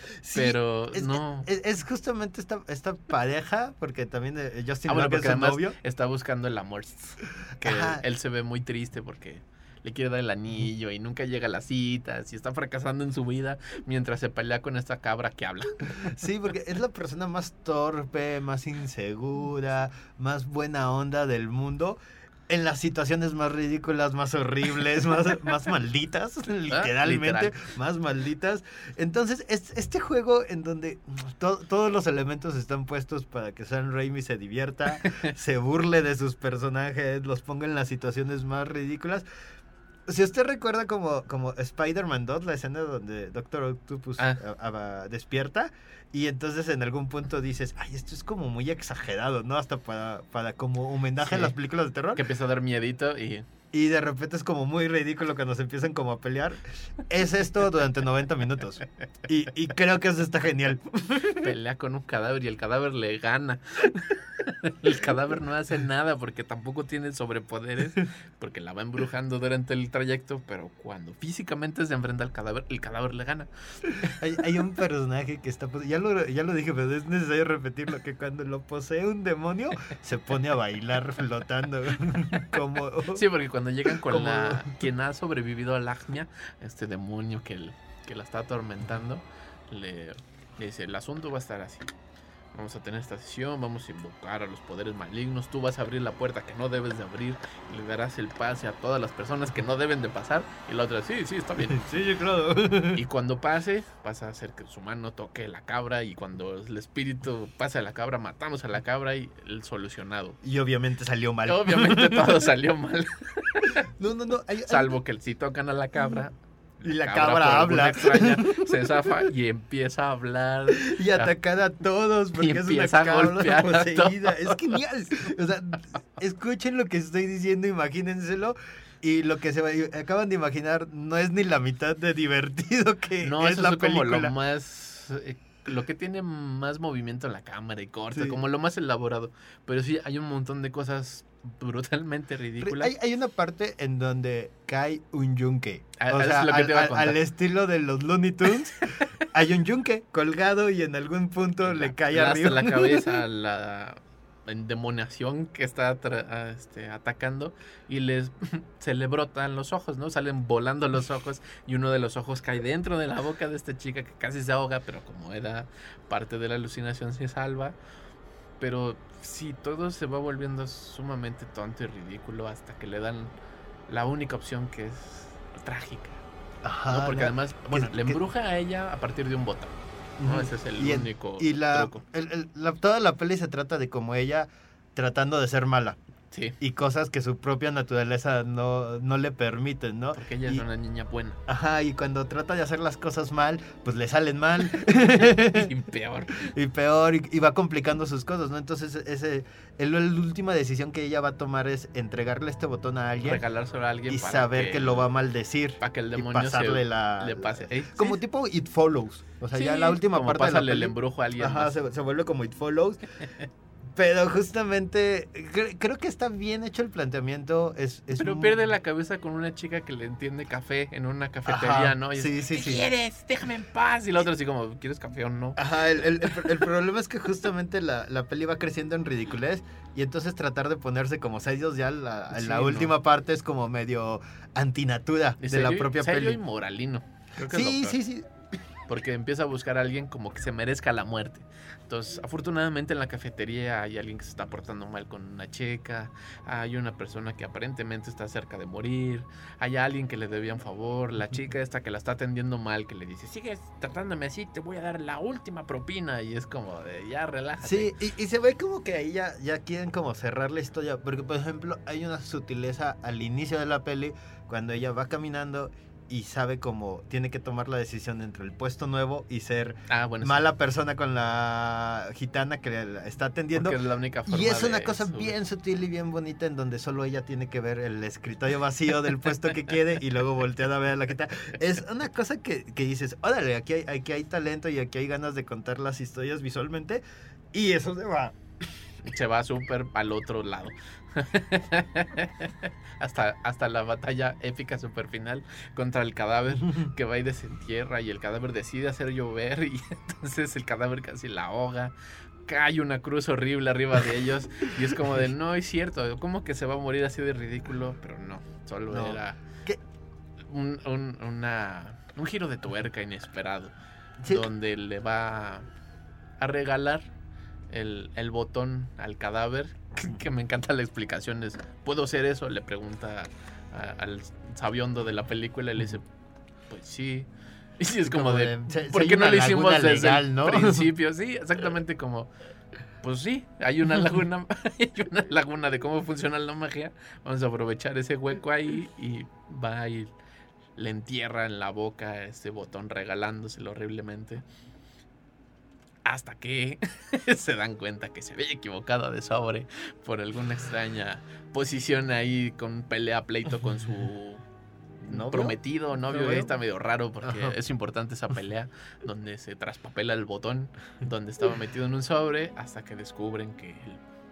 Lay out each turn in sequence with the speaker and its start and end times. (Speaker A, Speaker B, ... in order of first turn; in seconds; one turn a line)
Speaker A: 0.2-5.8
Speaker B: 0.3-1.5
Speaker B: 4.8-15.9
Speaker A: 7.6-8.0
Speaker A: 16.1-39.2
Speaker B: 26.7-27.5
Speaker B: 35.0-35.3
Speaker A: 40.1-52.2
Speaker B: 51.2-51.5
Speaker B: 52.1-53.5
Speaker A: 53.7-61.5
Speaker B: 61.4-73.5
Speaker A: 74.2-83.2
Speaker B: 83.1-91.9
Speaker A: 83.9-84.8
Speaker B: 92.5-101.8
Speaker A: 101.6-103.0
Speaker B: 102.9-110.4
Speaker A: 110.4-112.5
Speaker B: 111.5-113.7
Speaker A: 114.0-115.0
Speaker B: 114.7-116.3
Speaker A: 116.0-116.2
Speaker A: 116.8-119.3
Speaker B: 116.8-121.3
Speaker A: 120.7-134.3
Speaker B: 122.3-124.8
Speaker B: 133.2-142.9
Speaker A: 138.1-138.4
Speaker A: 142.6-153.2
Speaker B: 145.9-147.2
Speaker B: 151.6-167.8
Speaker B: 168.6-173.3
Speaker B: 173.9-176.2
Speaker A: 176.6-178.2
Speaker B: 176.9-182.0
Speaker A: 180.2-186.0
Speaker A: 186.6-190.6
Speaker B: 190.1-191.4
Speaker A: 191.5-195.7
Speaker B: 195.2-196.5
Speaker A: 196.4-203.4
Speaker B: 203.2-205.1
Speaker A: 204.1-213.0
Speaker B: 205.8-208.2
Speaker B: 209.5-211.7
Speaker A: 213.9-218.6
Speaker B: 218.1-225.6
Speaker A: 221.4-222.9
Speaker A: 225.6-236.4
Speaker B: 232.3-233.0
Speaker B: 235.4-238.0
Speaker A: 237.5-238.3
Speaker B: 238.9-257.9
Speaker A: 257.6-288.4
Speaker B: 269.9-270.4
Speaker B: 273.5-275.4
Speaker B: 289.0-301.9
Speaker B: 302.4-309.4
Speaker A: 308.9-309.8
Speaker B: 310.4-313.7
Speaker A: 314.2-314.5
Speaker B: 314.3-315.7
Speaker B: 316.4-317.1
Speaker B: 317.7-326.1
Speaker B: 326.7-327.3
Speaker B: 327.8-332.3
Speaker A: 328.0-330.9
Speaker B: 333.0-340.1
Speaker B: 340.8-344.4
Speaker B: 346.0-354.4
Speaker B: 355.0-364.0
Speaker A: 355.1-356.5
Speaker A: 357.2-357.6